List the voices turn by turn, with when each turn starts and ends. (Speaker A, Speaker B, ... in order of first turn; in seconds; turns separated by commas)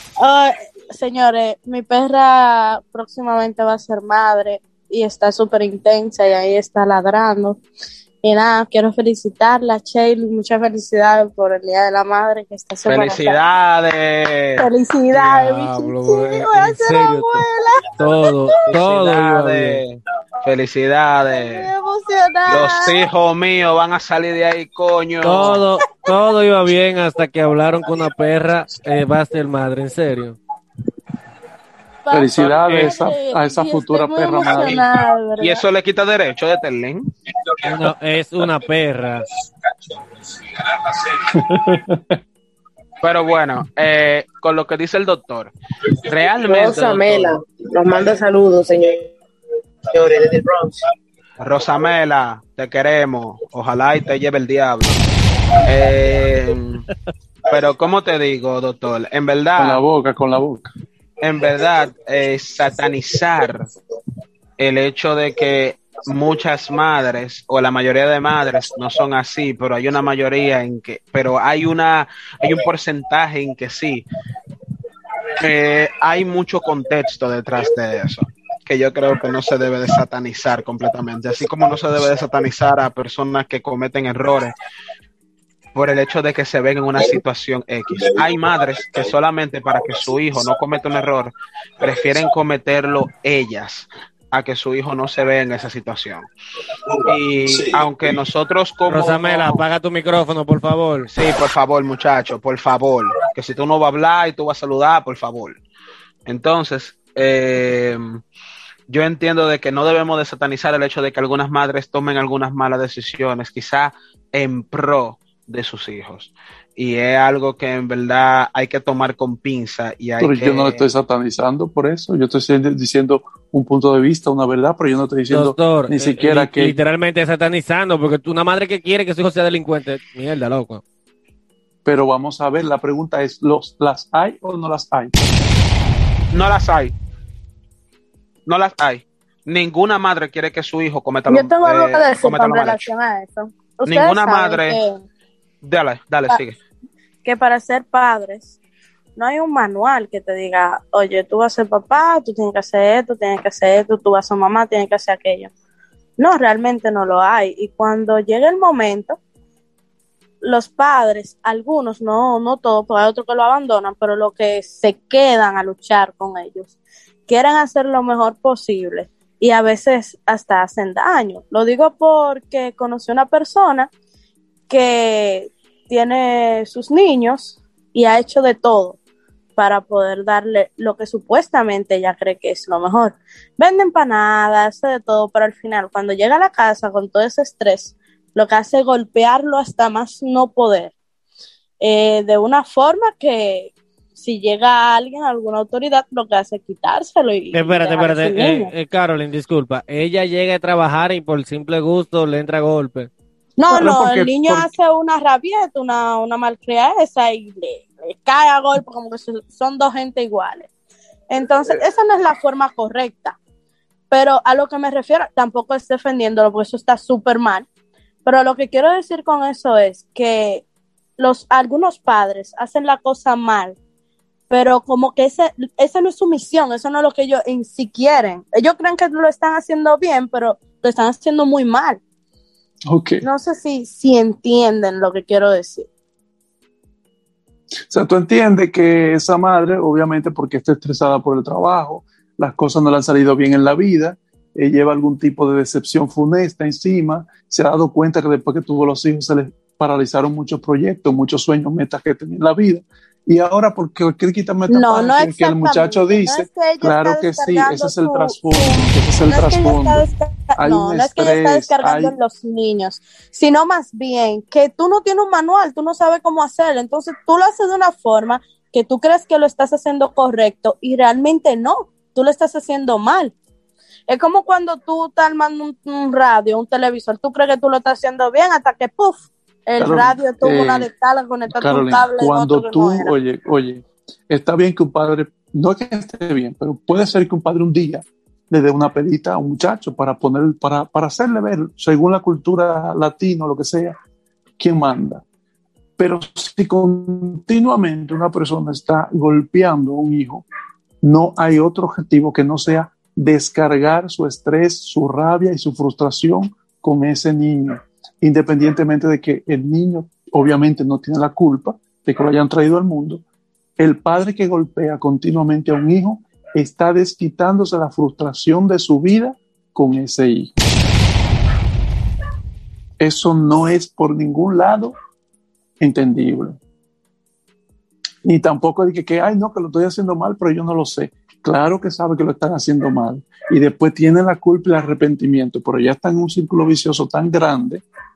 Speaker A: 0.2-7.6, Speaker A: 8.2-13.4, Speaker B: 12.8-14.7, Speaker A: 14.6-18.5, Speaker C: 15.2-17.4, Speaker C: 18.0-19.8, Speaker B: 18.7-21.7, Speaker A: 21.3-23.1, Speaker B: 22.5-25.7, Speaker C: 25.2-30.4, Speaker A: 32.0-35.6, Speaker D: 32.1-34.8, Speaker B: 35.4-37.0, Speaker C: 37.6-39.2, Speaker D: 41.3-42.1, Speaker B: 43.0-45.5, Speaker B: 46.0-47.4, Speaker E: 46.4-49.1, Speaker E: 49.9-50.8, Speaker B: 51.4-55.0, Speaker B: 55.6-56.8, Speaker B: 57.5-59.8, Speaker D: 59.6-60.7, Speaker B: 61.2-63.6, Speaker B: 64.6-74.0, Speaker B: 75.4-84.5, Speaker B: 85.7-96.3, Speaker B: 97.0-99.6, Speaker C: 98.9-101.1, Speaker B: 101.1-105.6, Speaker B: 106.2-108.2, Speaker B: 108.9-120.9, Speaker D: 120.2-126.8, Speaker C: 125.3-130.8, Speaker D: 131.8-135.2, Speaker B: 136.3-136.9, Speaker B: 138.5-142.9, Speaker A: 141.3-145.0, Speaker B: 143.9-144.8, Speaker B: 145.6-146.6, Speaker A: 147.2-148.5, Speaker A: 149.2-155.5, Speaker A: 156.2-159.2, Speaker A: 160.4-166.7, Speaker A: 167.3-173.9, Speaker A: 174.7-179.0, Speaker A: 179.6-190.9, Speaker A: 191.8-198.7, Speaker C: 197.5-203.1, Speaker A: 203.6-210.7, Speaker D: 203.7-204.7, Speaker A: 211.3-213.4, Speaker A: 214.1-217.7, Speaker A: 218.2-220.6, Speaker A: 221.2-223.8, Speaker A: 224.5-232.0, Speaker D: 232.9-233.2, Speaker A: 233.2-235.9, Speaker D: 237.9-260.1, Speaker A: 254.7-273.3, Speaker D: 260.6-262.1, Speaker A: 274.1-283.1, Speaker D: 279.8-280.9, Speaker D: 281.5-293.9, Speaker D: 294.6-295.2, Speaker D: 296.0-300.4, Speaker D: 301.0-313.2, Speaker D: 313.8-320.5, Speaker D: 323.0-324.9, Speaker D: 325.8-326.6, Speaker D: 328.2-337.8